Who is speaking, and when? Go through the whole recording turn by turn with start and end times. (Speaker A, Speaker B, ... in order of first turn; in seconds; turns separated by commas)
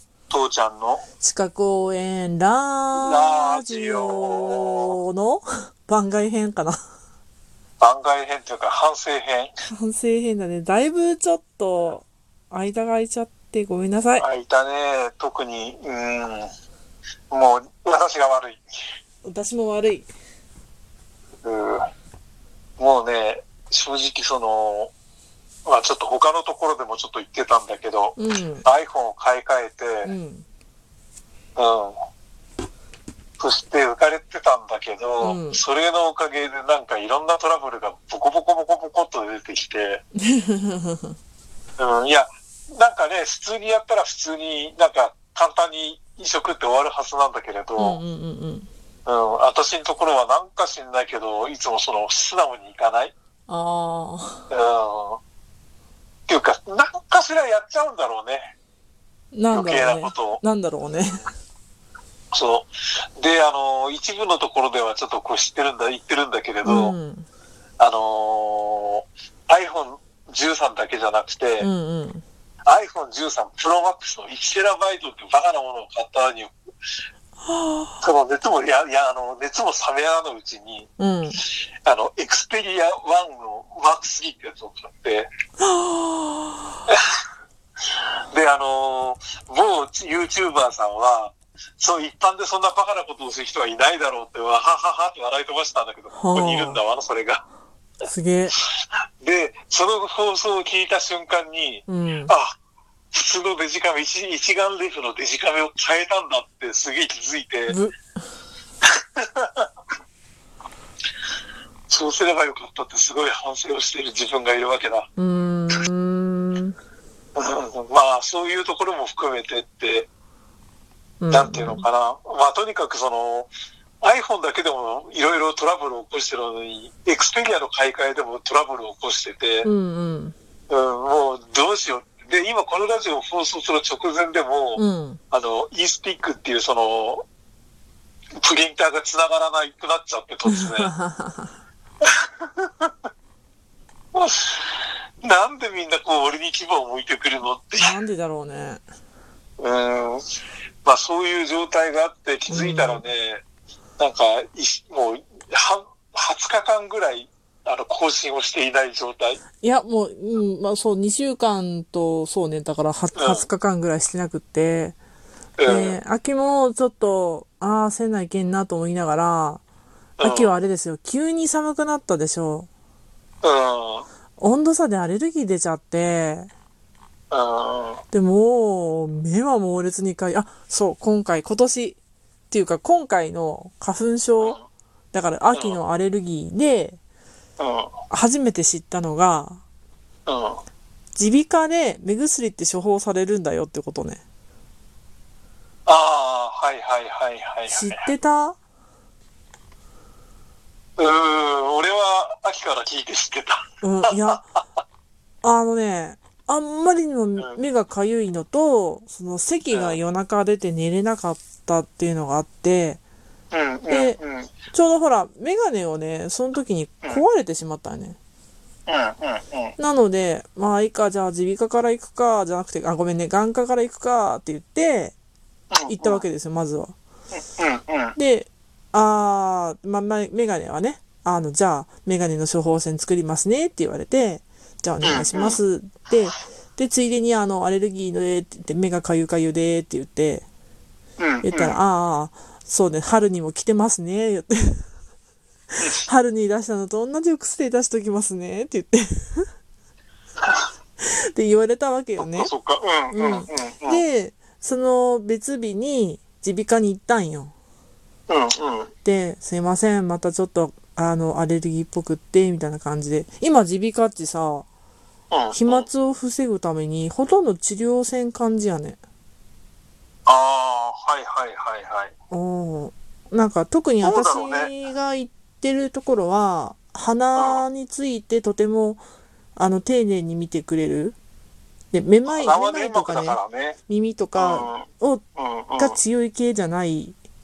Speaker A: 0.3-1.0, Speaker B: 1.2-6.8, Speaker A: 3.0-5.0, Speaker A: 7.8-9.5, Speaker B: 9.7-14.3, Speaker A: 14.2-16.5, Speaker A: 17.3-18.6, Speaker B: 19.2-20.1, Speaker A: 21.4-21.9, Speaker A: 22.8-24.9, Speaker A: 25.6-30.1, Speaker B: 28.2-28.6, Speaker B: 30.1-30.4, Speaker A: 31.6-32.0, Speaker A: 33.4-40.0, Speaker B: 35.2-35.6, Speaker B: 40.2-41.1, Speaker A: 41.8-48.0, Speaker B: 47.8-48.7, Speaker A: 49.1-53.1, Speaker B: 53.5-54.5, Speaker A: 54.5-55.2, Speaker A: 56.3-58.5, Speaker B: 59.3-61.3, Speaker A: 59.5-60.4, Speaker A: 62.3-67.0, Speaker B: 66.6-67.3, Speaker A: 67.8-71.7, Speaker B: 71.6-72.2, Speaker A: 72.7-76.5, Speaker B: 77.5-78.0, Speaker A: 78.0-80.9, Speaker B: 81.0-81.4, Speaker A: 81.4-85.3, Speaker B: 85.6-86.8, Speaker A: 88.3-97.4, Speaker B: 96.1-96.8, Speaker B: 98.0-98.5, Speaker A: 99.2-102.5, Speaker B: 101.9-102.3, Speaker A: 103.1-107.8, Speaker B: 107.7-108.0, Speaker A: 109.0-109.7, Speaker A: 111.9-115.1, Speaker B: 115.2-116.8, Speaker A: 117.4-120.1, Speaker B: 121.2-121.8, Speaker A: 121.3-123.5, Speaker A: 124.0-129.7, Speaker B: 129.6-130.3, Speaker A: 130.7-137.2, Speaker B: 134.8-135.2, Speaker A: 138.4-140.9, Speaker B: 140.5-141.5, Speaker A: 142.1-142.9, Speaker A: 144.1-148.0, Speaker B: 147.8-148.8, Speaker A: 149.6-150.2, Speaker A: 150.8-153.4, Speaker B: 152.5-153.0, Speaker A: 154.0-159.4, Speaker B: 159.6-165.0, Speaker A: 163.2-163.5, Speaker A: 165.6-166.0, Speaker B: 165.7-169.6, Speaker A: 170.2-170.5, Speaker B: 170.2-172.7, Speaker A: 173.4-174.1, Speaker B: 174.4-176.5, Speaker A: 177.3-178.0, Speaker B: 178.1-182.0, Speaker B: 182.5-184.6, Speaker B: 185.1-187.0, Speaker A: 185.5-185.8, Speaker A: 187.6-187.9, Speaker B: 188.1-189.6, Speaker A: 190.3-190.6, Speaker B: 191.2-194.2, Speaker A: 195.9-198.1, Speaker B: 197.7-198.6, Speaker A: 201.0-204.4, Speaker B: 203.8-204.4, Speaker B: 205.4-213.0, Speaker A: 209.7-210.0, Speaker A: 213.5-214.5, Speaker B: 213.9-214.2, Speaker B: 214.7-218.2, Speaker A: 218.9-219.8, Speaker B: 219.8-225.2, Speaker A: 225.7-226.2, Speaker B: 225.9-226.9, Speaker A: 227.3-228.2, Speaker B: 228.2-240.5, Speaker A: 235.0-235.6, Speaker A: 241.2-241.8, Speaker B: 241.4-244.8, Speaker B: 246.0-249.5, Speaker B: 251.0-252.5, Speaker A: 252.2-254.0, Speaker B: 253.1-257.5, Speaker A: 258.3-258.9, Speaker B: 259.1-264.7, Speaker A: 265.3-265.9, Speaker B: 265.5-269.0, Speaker A: 270.3-272.1, Speaker B: 272.3-279.0, Speaker A: 274.0-274.7, Speaker A: 277.4-277.6, Speaker B: 279.6-281.2, Speaker B: 281.9-285.2, Speaker A: 282.3-283.8, Speaker A: 284.4-286.0, Speaker B: 285.8-287.2